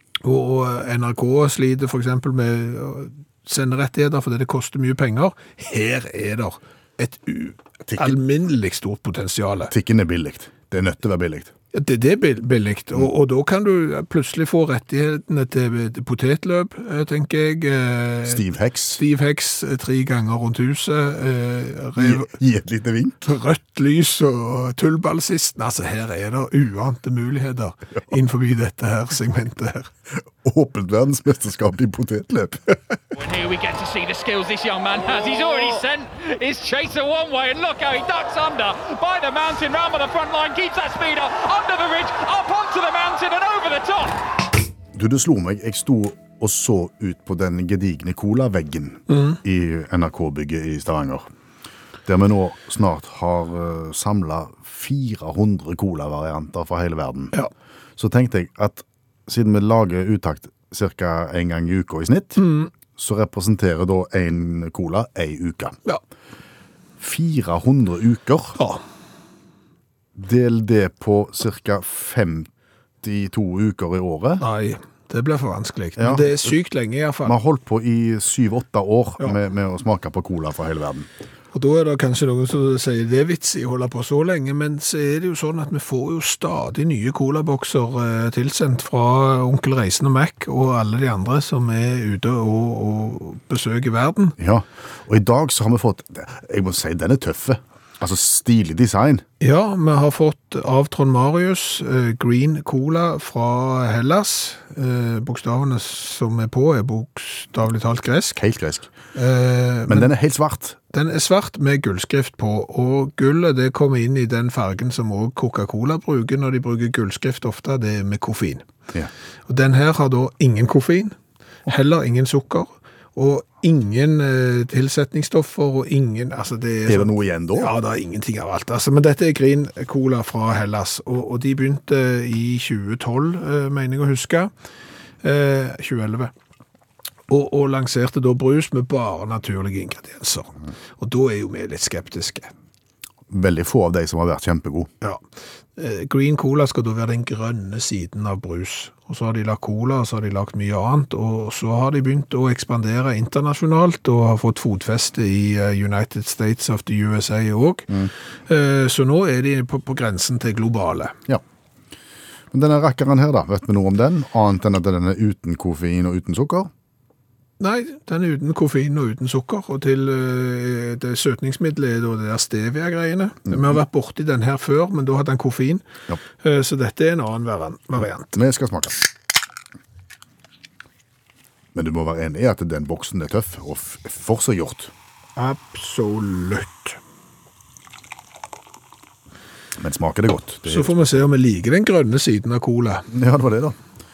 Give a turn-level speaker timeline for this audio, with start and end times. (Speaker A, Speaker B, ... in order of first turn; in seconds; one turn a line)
Speaker A: 0.2-9.7
Speaker B: 7.9-8.2
Speaker B: 9.7-11.5
Speaker A: 11.7-18.4
Speaker B: 18.3-19.0
Speaker A: 19.0-22.3
Speaker B: 22.0-23.2
Speaker A: 23.2-29.9
Speaker B: 30.4-32.8
Speaker C: 33.1-44.2
Speaker B: 44.9-51.2
Speaker A: 49.1-49.4
Speaker B: 52.1-57.3
Speaker B: 58.0-65.8
Speaker A: 62.4-62.7
Speaker B: 67.0-68.6
Speaker A: 68.6-68.8
Speaker B: 70.2-72.5
Speaker B: 73.0-74.4
Speaker A: 74.4-77.4
Speaker B: 76.0-76.5
Speaker B: 77.2-81.1
Speaker A: 81.5-94.4
Speaker B: 94.4-99.2
Speaker A: 99.4-108.4
Speaker B: 108.4-108.9
Speaker A: 109.2-110.1
Speaker B: 109.9-110.8
Speaker A: 110.9-118.7
Speaker A: 119.5-121.2
Speaker A: 121.7-134.5
Speaker B: 126.9-127.7
Speaker A: 135.2-136.3
Speaker A: 137.3-142.5
Speaker B: 143.3-144.9
Speaker A: 145.8-157.9
Speaker A: 158.5-161.2
Speaker B: 162.5-166.7
Speaker A: 167.6-175.8
Speaker A: 176.4-178.3
Speaker B: 178.3-179.0
Speaker B: 181.7-184.9
Speaker A: 185.4-187.0
Speaker B: 189.8-190.9
Speaker A: 190.7-193.1
Speaker B: 193.1-193.8